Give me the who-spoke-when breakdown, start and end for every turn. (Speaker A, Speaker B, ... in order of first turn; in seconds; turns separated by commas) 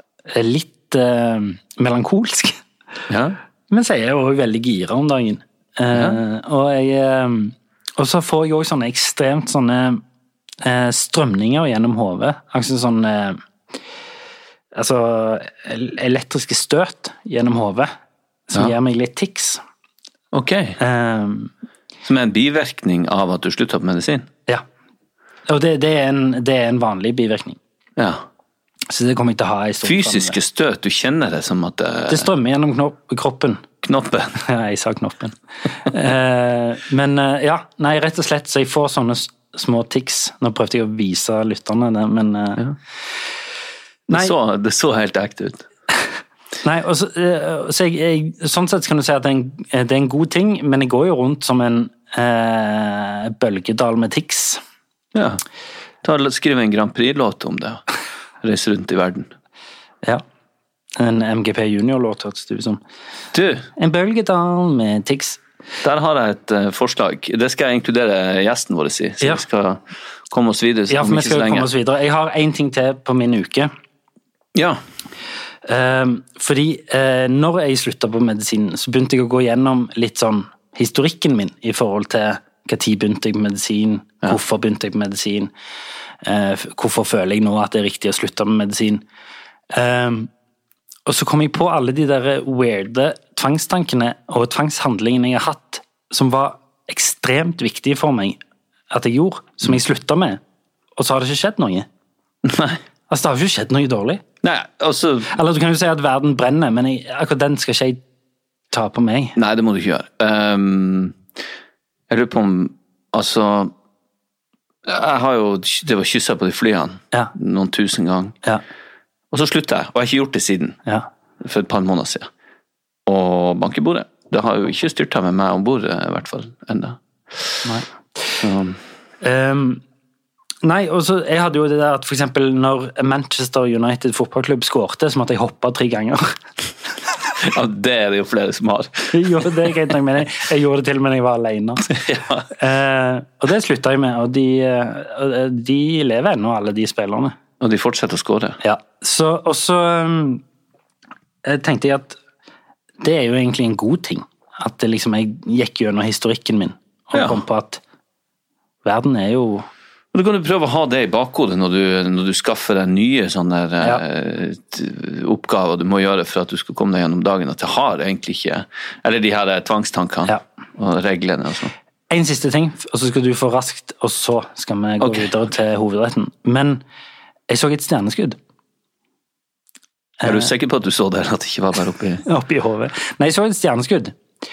Speaker A: 0.3-2.6, Speaker B: 3.1-3.4, Speaker A: 3.7-10.0, Speaker B: 5.9-6.2, Speaker A: 10.6-13.4, Speaker A: 14.7-17.9, Speaker A: 18.5-19.6, Speaker B: 20.3-20.8, Speaker A: 20.8-21.5, Speaker B: 22.1-24.3, Speaker A: 25.5-27.6, Speaker B: 28.0-28.2, Speaker A: 28.9-30.4, Speaker B: 29.8-32.3, Speaker A: 32.1-33.6, Speaker B: 33.8-34.4, Speaker A: 34.5-42.6, Speaker B: 44.1-45.6, Speaker A: 46.6-54.6, Speaker B: 55.1-55.4, Speaker B: 56.0-57.8, Speaker B: 58.4-59.3, Speaker A: 61.0-62.8, Speaker B: 63.3-63.7, Speaker A: 63.8-65.4, Speaker B: 65.8-71.7, Speaker A: 70.9-73.7, Speaker B: 74.5-74.8, Speaker A: 75.7-85.5, Speaker A: 86.2-89.0, Speaker A: 89.7-90.3, Speaker A: 91.1-98.4, Speaker A: 98.9-100.4, Speaker A: 101.0-101.9, Speaker B: 102.5-102.8, Speaker A: 103.1-104.2, Speaker B: 104.4-105.3, Speaker A: 105.3-108.0, Speaker A: 108.7-109.4, Speaker B: 109.3-111.2, Speaker B: 112.1-113.7, Speaker B: 114.9-118.4, Speaker B: 119.3-120.8, Speaker B: 121.4-122.3, Speaker B: 123.1-127.6, Speaker B: 128.4-128.8, Speaker A: 129.2-129.8, Speaker A: 130.6-136.3, Speaker B: 137.4-139.7, Speaker A: 139.1-141.9, Speaker B: 141.9-142.5, Speaker A: 142.6-147.3, Speaker B: 147.6-148.6, Speaker A: 148.6-150.4, Speaker A: 151.4-152.2, Speaker A: 153.0-157.8, Speaker B: 157.1-157.4, Speaker A: 158.8-159.7, Speaker B: 160.1-171.7, Speaker A: 172.1-176.8, Speaker B: 175.0-175.3, Speaker A: 177.5-178.4, Speaker A: 180.2-180.5, Speaker B: 180.2-182.2, Speaker A: 182.3-184.2